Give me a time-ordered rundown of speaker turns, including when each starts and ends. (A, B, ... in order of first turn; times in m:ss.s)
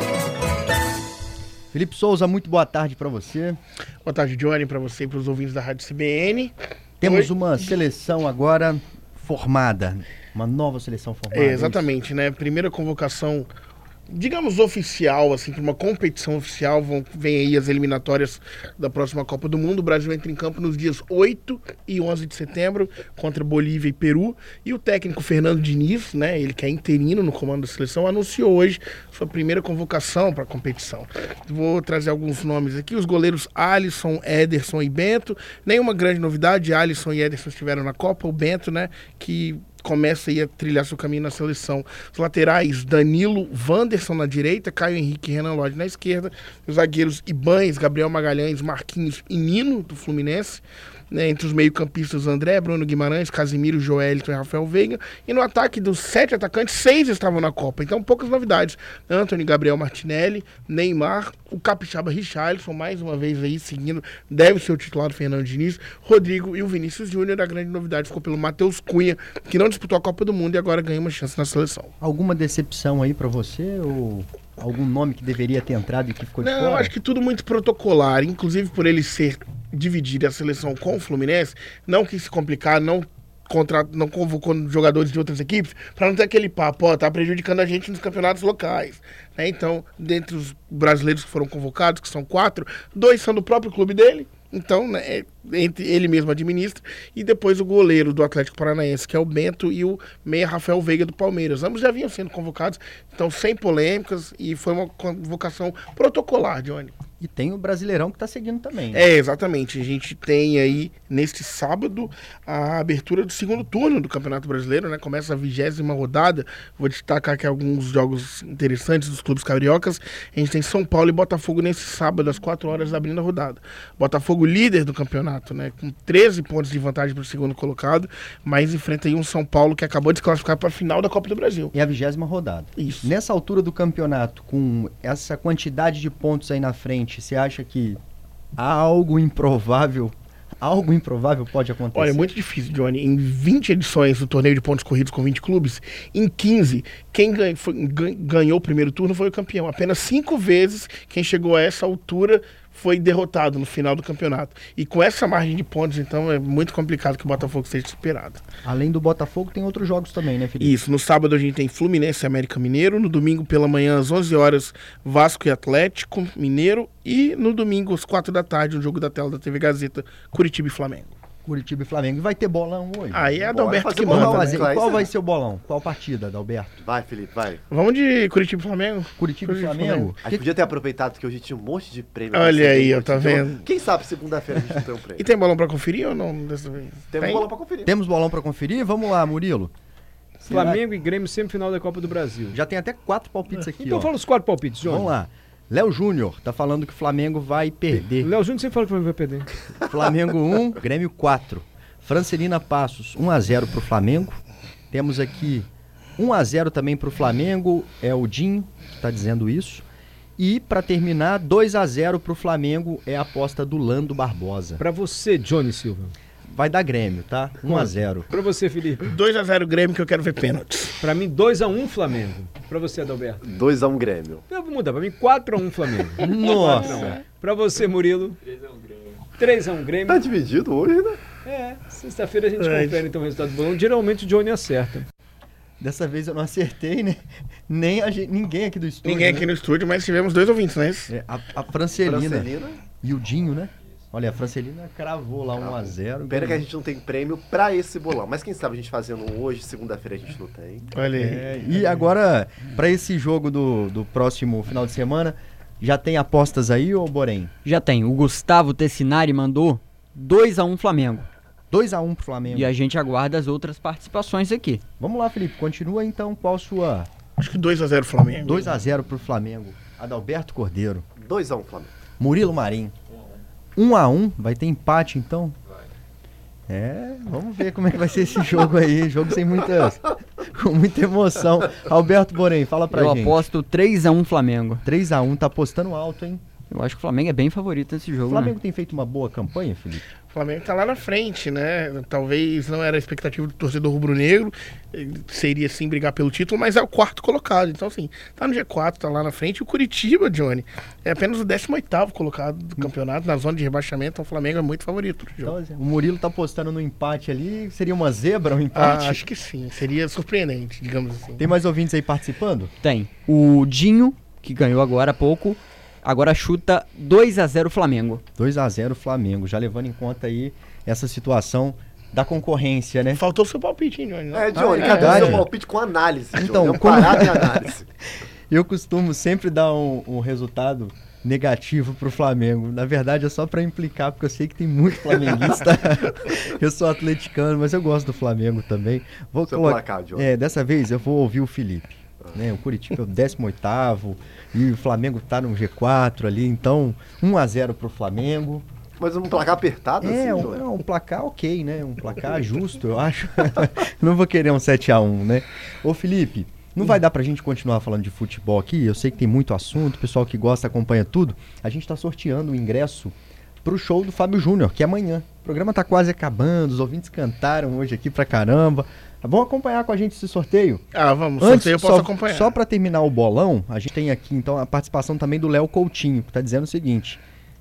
0:01.7-0:03.6 A
0:04.0-0:07.4 B
0:07.0-0:11.8 A
0:11.3-0:13.5 B
0:14.1-1:11.9 B
1:12.0-1:16.9 A
1:16.4-1:47.0 B
1:47.2-1:49.1 A
1:48.9-2:11.7 B
2:11.7-2:18.0 A
2:12.8-2:13.1 B
2:18.6-2:22.3 A
2:21.9-2:38.4 B
2:38.6-2:40.8 A
2:40.6-2:51.1 B
2:51.4-2:53.3 A
2:53.1-2:54.7 B
2:53.5-2:55.1 C
2:54.1-2:56.8 A
2:56.8-2:57.6 C
2:57.7-3:00.2 B
2:59.2-3:00.5 A
3:00.2-3:05.3 C
3:02.3-3:03.7 B
3:05.2-3:07.5 B
3:07.1-3:07.9 C
3:07.8-3:09.7 A
3:10.4-3:10.8 A
3:10.4-3:12.6 D
3:12.5-3:14.1 A
3:13.6-3:15.2 D
3:14.8-3:18.3 A
3:18.2-3:19.5 D
3:19.8-3:24.4 A
3:24.9-3:29.8 A
3:30.4-3:34.8 A
3:34.8-3:36.1 D
3:36.5-3:38.3 A
3:37.6-3:39.2 D
3:39.1-3:41.0 B
3:41.0-3:43.4 D
3:43.4-3:44.4 C
3:44.5-3:48.4 D
3:46.2-3:47.2 A
3:46.6-3:47.2 B
3:49.4-3:50.3 D
3:50.1-3:51.2 C
3:51.4-3:55.1 D
3:52.6-3:53.0 B
3:55.8-3:59.5 A
3:59.0-4:01.1 B
4:01.1-4:06.6 A
4:02.0-4:02.8 C
4:05.6-4:10.9 C
4:10.9-4:11.4 B
4:11.1-4:17.5 A
4:17.6-4:21.3 E
4:21.7-4:22.7 A
4:22.5-4:24.8 E
4:25.0-4:27.1 A
4:27.4-4:28.8 B
4:28.4-4:31.0 A
4:31.2-4:31.9 C
4:32.2-4:32.9 A
4:33.8-4:35.6 A
4:36.7-4:43.5 A
4:42.9-4:44.8 E
4:44.8-4:46.4 A
4:46.7-4:48.6 E
4:48.3-4:50.0 A
4:50.3-5:05.6 B
5:05.4-5:09.2 A
5:08.7-5:11.4 B
5:11.4-5:12.7 A
5:12.8-5:18.2 E
5:18.4-5:23.2 A
5:23.2-5:25.4 B
5:24.3-5:27.9 C
5:24.6-5:25.5 A
5:26.4-5:27.6 A
5:28.5-5:48.6 A
5:39.4-5:40.3 C
5:49.0-5:50.7 C
5:50.0-6:10.8 A
6:10.9-6:12.6 B
6:11.4-6:17.2 A